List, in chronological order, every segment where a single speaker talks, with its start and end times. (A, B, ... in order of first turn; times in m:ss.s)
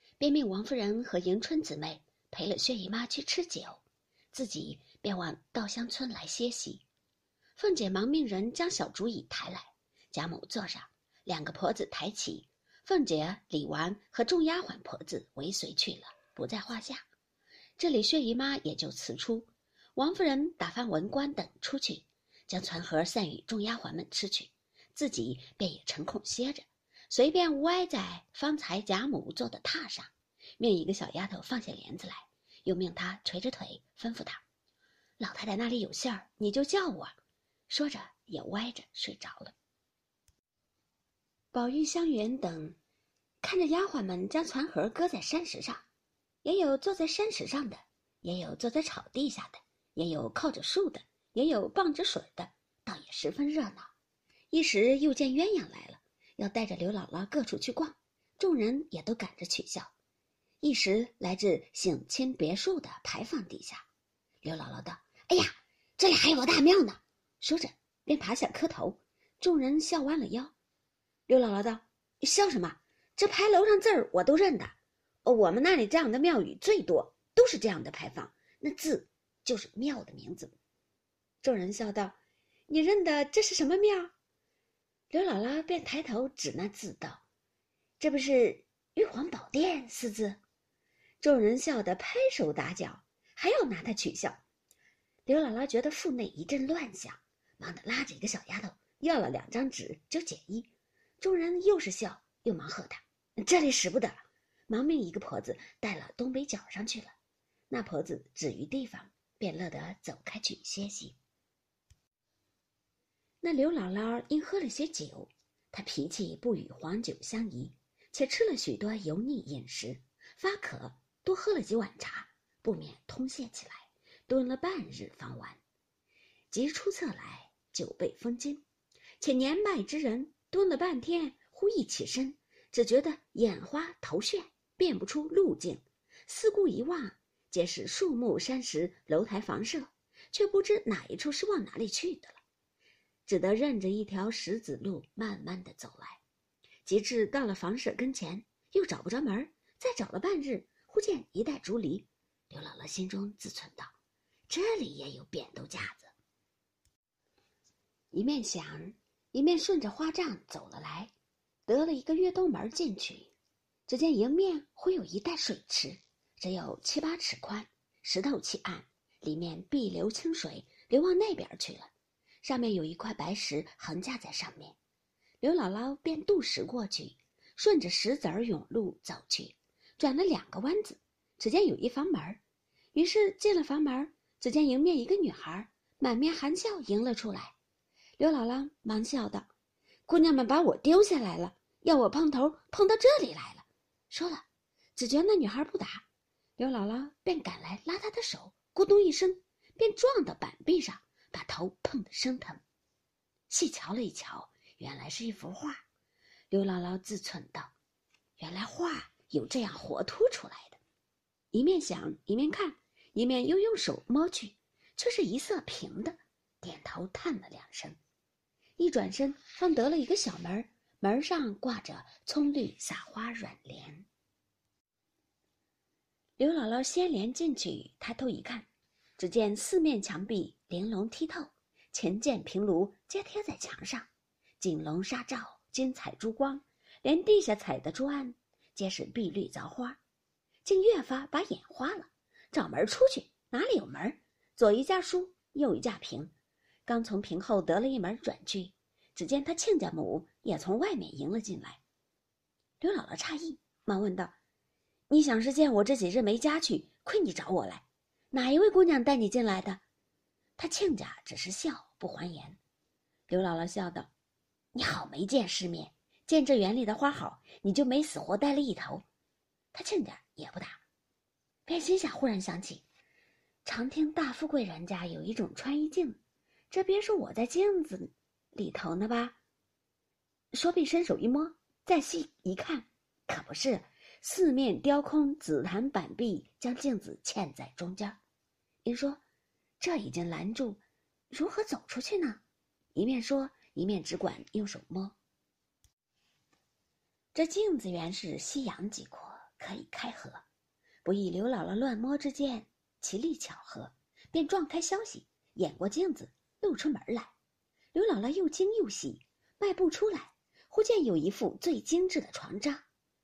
0:00.2-0:06.8 A
0:07.6-0:17.0 A
0:17.8-0:34.4 A
0:35.2-0:37.1 A
0:37.7-0:39.5 A
0:41.5-0:42.8 A
0:43.4-0:45.8 A
0:46.4-0:53.9 A
0:54.5-0:59.9 A
1:00.6-1:03.8 A
1:04.4-1:10.5 A
1:11.3-1:14.7 A
1:15.2-1:20.5 A
1:21.4-1:22.2 A
1:22.7-1:24.1 A
1:25.1-1:27.2 A
1:28.0-1:30.4 A
1:31.2-1:34.4 A
1:35.2-1:47.1 A
1:47.7-1:51.2 A
1:53.4-2:05.6 A
2:06.5-2:08.6 A
2:09.2-2:22.4 A
2:23.2-2:26.2 A
2:26.8-2:33.9 A
2:34.5-2:36.1 A
2:38.1-2:41.1 A
2:41.7-2:43.3 A
2:43.9-2:51.9 A
2:52.4-2:54.8 A
2:55.4-3:02.4 A
3:02.9-3:07.5 A
3:08.2-3:09.5 A
3:10.1-3:14.4 A
3:15.0-3:16.0 A
3:16.6-3:22.6 A
3:23.5-3:25.8 A
3:26.5-3:27.7 A
3:28.4-3:30.8 A
3:31.5-3:38.0 A
3:38.8-3:44.1 A
3:46.4-3:54.1 A
3:54.6-4:00.0 A
4:00.6-4:06.3 A
4:06.8-4:11.8 A
4:12.8-4:14.4 A
4:15.1-4:19.8 A
4:20.6-4:22.6 A
4:23.3-4:24.1 A
4:24.7-4:29.0 A
4:29.7-4:30.8 A
4:31.7-4:32.8 A
4:33.6-4:39.4 A
4:40.5-4:48.2 A
4:48.8-4:49.2 A
4:49.8-4:52.4 A
4:52.9-4:55.2 A
4:57.3-5:00.4 A
5:01.0-5:07.3 A
5:07.9-5:12.8 A